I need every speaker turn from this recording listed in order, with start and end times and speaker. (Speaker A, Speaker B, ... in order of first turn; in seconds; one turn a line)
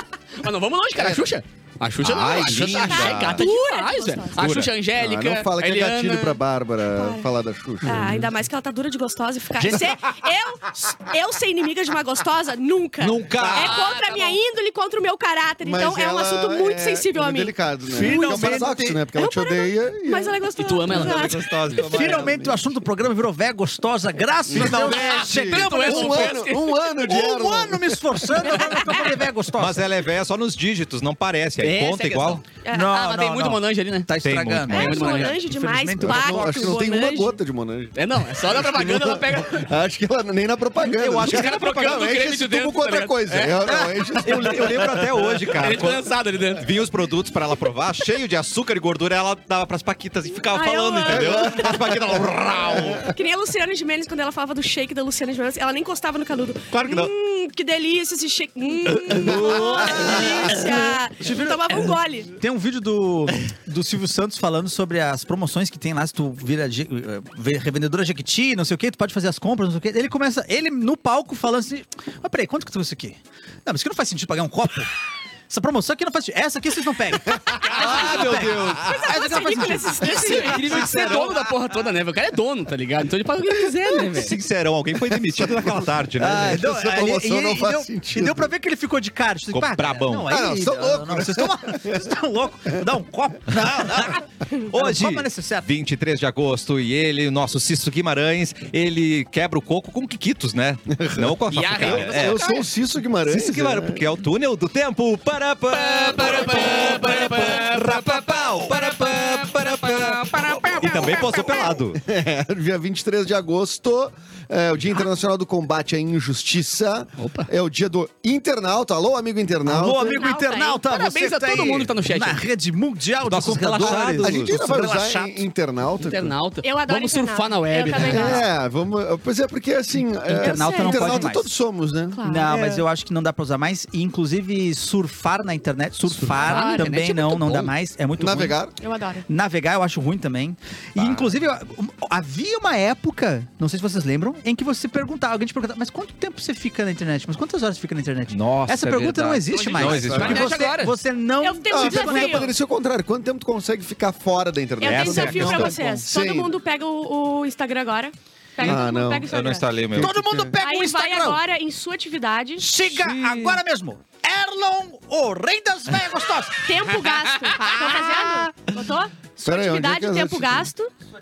Speaker A: 0.4-6.4
Speaker B: 1.0-1.2
Speaker C: 2.0-3.4
Speaker D: 2.6-4.4
Speaker C: 4.4-4.7
Speaker B: 4.9-8.1
Speaker D: 6.9-7.2
Speaker D: 7.8-18.5
Speaker E: 9.6-9.9
Speaker C: 13.0-13.8
Speaker A: 13.4-14.4
Speaker B: 15.6-20.4
Speaker E: 17.9-19.0
Speaker C: 17.9-18.9
Speaker D: 19.1-21.5
Speaker A: 20.6-21.4
Speaker C: 20.9-22.4
Speaker B: 21.7-22.6
Speaker E: 21.8-26.4
Speaker B: 24.5-28.0
Speaker C: 24.5-25.3
Speaker A: 25.2-26.9
Speaker E: 27.0-29.9
Speaker D: 28.5-29.1
Speaker C: 29.6-32.4
Speaker A: 31.6-34.1
Speaker D: 32.6-32.9
Speaker E: 32.7-36.9
Speaker C: 34.2-35.1
Speaker A: 34.7-35.4
Speaker D: 34.7-37.4
Speaker B: 36.0-45.1
Speaker A: 38.0-39.7
Speaker C: 40.8-42.0
Speaker A: 41.2-43.6
Speaker C: 44.2-53.1
Speaker A: 45.5-46.7
Speaker D: 50.5-51.6
Speaker B: 51.1-53.1
Speaker D: 53.1-62.3
Speaker C: 56.7-57.1
Speaker E: 59.1-74.9
Speaker B: 59.4-60.2
Speaker E: 75.5-81.3
Speaker A: 77.6-78.5
Speaker C: 77.7-79.0
Speaker B: 78.2-78.8
Speaker D: 78.8-80.9
Speaker A: 80.0-84.3
Speaker C: 80.9-81.2
Speaker C: 84.1-86.6
Speaker B: 85.4-88.5
Speaker E: 86.2-95.7
Speaker C: 89.5-90.3
Speaker B: 90.3-92.0
Speaker C: 93.5-102.5
Speaker B: 100.9-104.0
Speaker A: 101.5-102.5
Speaker C: 103.2-112.0
Speaker A: 105.7-111.4
Speaker E: 110.4-111.3
Speaker B: 111.7-120.2
Speaker A: 117.2-117.5
Speaker E: 119.6-125.3
Speaker D: 120.0-120.8
Speaker A: 120.8-122.4
Speaker C: 123.2-124.6
Speaker B: 123.8-126.3
Speaker A: 126.0-128.4
Speaker D: 126.6-128.5
Speaker B: 128.0-132.2
Speaker E: 130.2-131.5
Speaker D: 130.4-131.3
Speaker D: 132.1-132.8
Speaker E: 132.2-138.6
Speaker A: 136.1-137.7
Speaker D: 136.3-136.9
Speaker B: 138.2-138.8
Speaker D: 138.8-139.2
Speaker E: 139.3-152.5
Speaker C: 140.9-141.3
Speaker C: 148.3-150.6
Speaker A: 149.5-150.9
Speaker B: 150.1-150.4
Speaker D: 151.4-152.5
Speaker B: 151.7-156.5
Speaker D: 154.8-159.7
Speaker C: 154.8-155.8
Speaker B: 158.6-159.3
Speaker C: 159.2-160.2
Speaker B: 159.9-160.6
Speaker E: 159.9-161.4
Speaker D: 160.6-162.7
Speaker E: 162.6-167.0
Speaker C: 162.9-163.6
Speaker D: 166.6-170.9
Speaker E: 167.6-168.5
Speaker B: 169.4-170.7